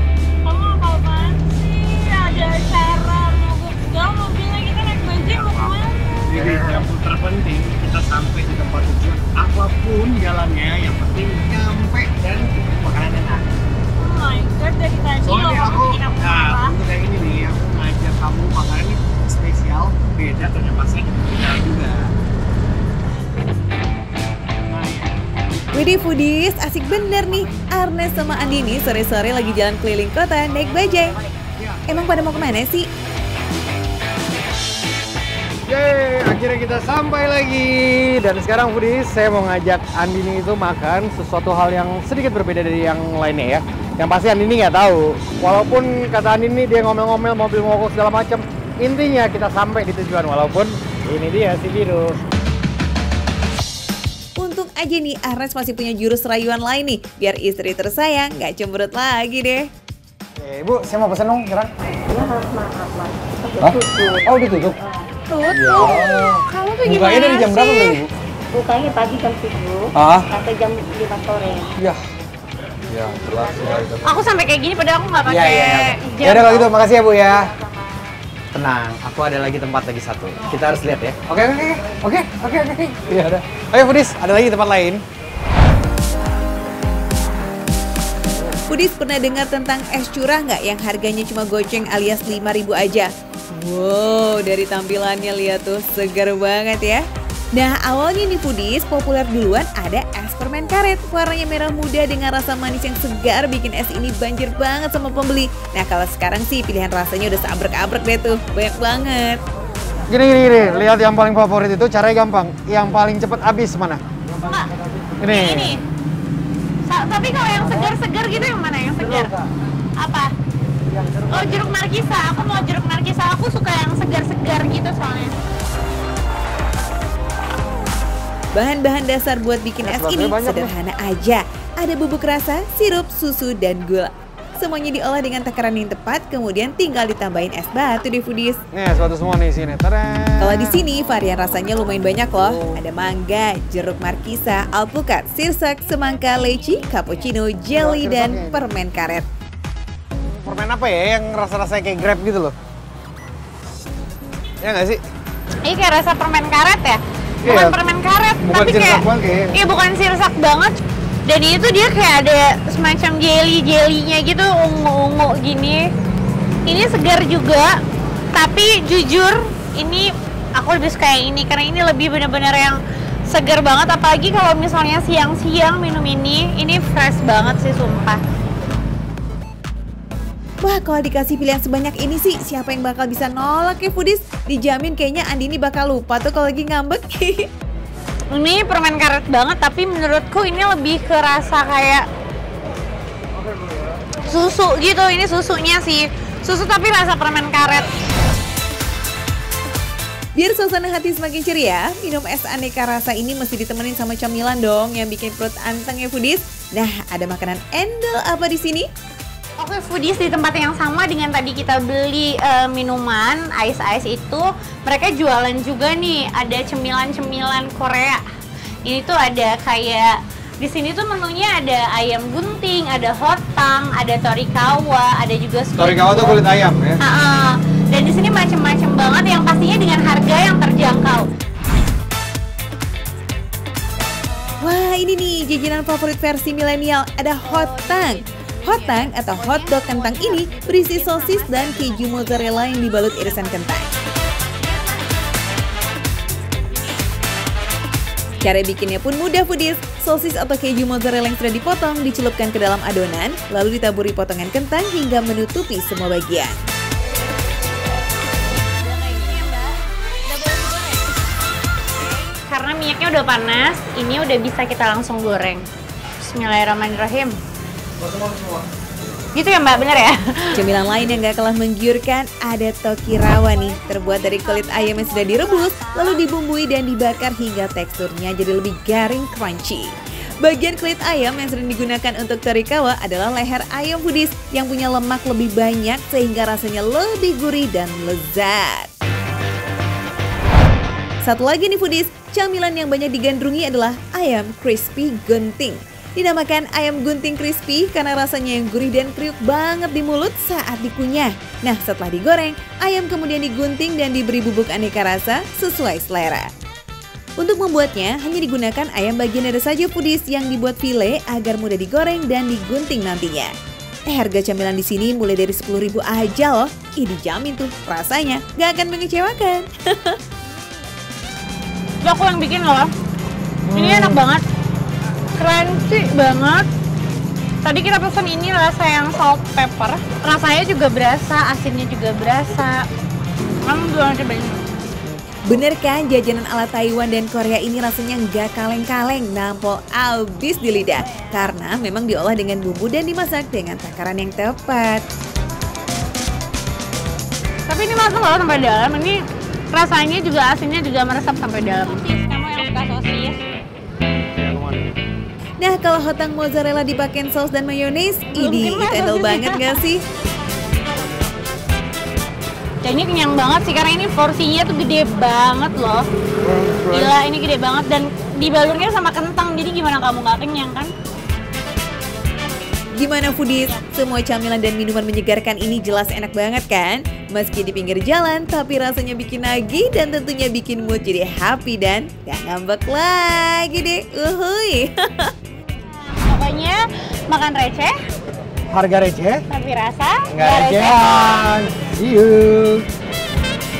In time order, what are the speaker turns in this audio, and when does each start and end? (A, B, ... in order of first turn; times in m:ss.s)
0:00.4-0:06.4 A
0:05.2-0:05.7 B
0:06.2-0:13.5 B
0:14.0-0:16.8 A
0:15.2-0:22.1 B
0:24.5-0:25.9 B
0:25.7-0:31.2 C
0:31.4-0:32.3 B
0:31.9-0:32.9 C
0:35.7-0:52.2 B
0:54.4-0:59.7 C
1:00.4-1:01.7 B
1:02.1-1:04.4 D
1:03.6-1:04.8 B
1:05.3-1:08.0 C
1:05.5-1:08.1 B
1:08.5-1:11.8 D
1:10.0-1:10.3 B
1:12.9-1:14.1 B
1:14.0-1:16.7 A
1:15.3-1:17.5 B
1:18.5-1:25.0 B
1:28.7-1:37.0 C
1:37.6-1:49.4 C
1:50.1-1:54.0 B
1:54.4-1:55.8 A
1:55.2-1:55.8 B
1:56.8-1:59.3 A
2:00.0-2:00.3 A
2:01.2-2:05.4 A
2:08.5-2:18.6 C
2:09.8-2:10.7 B
2:18.7-2:20.8 B
2:20.4-2:29.3 C
2:22.4-2:22.8 B
2:27.7-2:28.6 B
2:30.2-2:32.6 B
2:34.6-2:35.0 B
2:35.6-2:45.9 A
2:37.4-2:37.8 B
2:38.4-2:39.6 B
2:46.7-2:47.8 A
2:48.3-2:58.2 A
3:00.6-3:07.5 C
3:08.3-3:12.1 A
3:14.3-3:17.9 A
3:20.4-3:28.9 C
3:29.6-3:38.2 A
3:38.8-3:46.4 A
3:45.8-3:47.0 B
3:47.0-3:51.3 A
3:54.6-4:03.9 C
3:57.4-4:02.7 A
4:03.3-4:03.8 A
4:04.6-4:05.0 A
4:08.4-4:16.6 C
4:18.7-4:21.1 A
4:22.3-4:25.7 A
4:26.2-4:27.4 A
4:28.1-4:28.5 B
4:29.3-4:30.7 A
4:30.5-4:48.9 C
4:33.4-4:36.2 A
4:51.2-5:06.5 C
5:07.4-5:13.5 C
5:14.1-5:20.2 C
5:22.0-5:22.9 A
5:23.7-5:24.4 A
5:23.7-5:24.0 B
5:25.4-5:26.7 A
5:27.6-5:32.8 A
5:33.6-5:34.6 A
5:35.4-5:45.0 C
5:47.7-5:53.4 A
5:54.3-5:54.9 B
5:55.6-6:00.0 C
5:58.3-5:59.8 A
6:02.8-6:06.0 A
6:06.4-6:07.0 B
6:06.8-6:10.9 A
6:13.0-6:25.3 C
6:26.1-6:28.0 A
6:28.7-6:29.4 B
6:29.5-6:31.4 A
6:30.3-6:32.9 B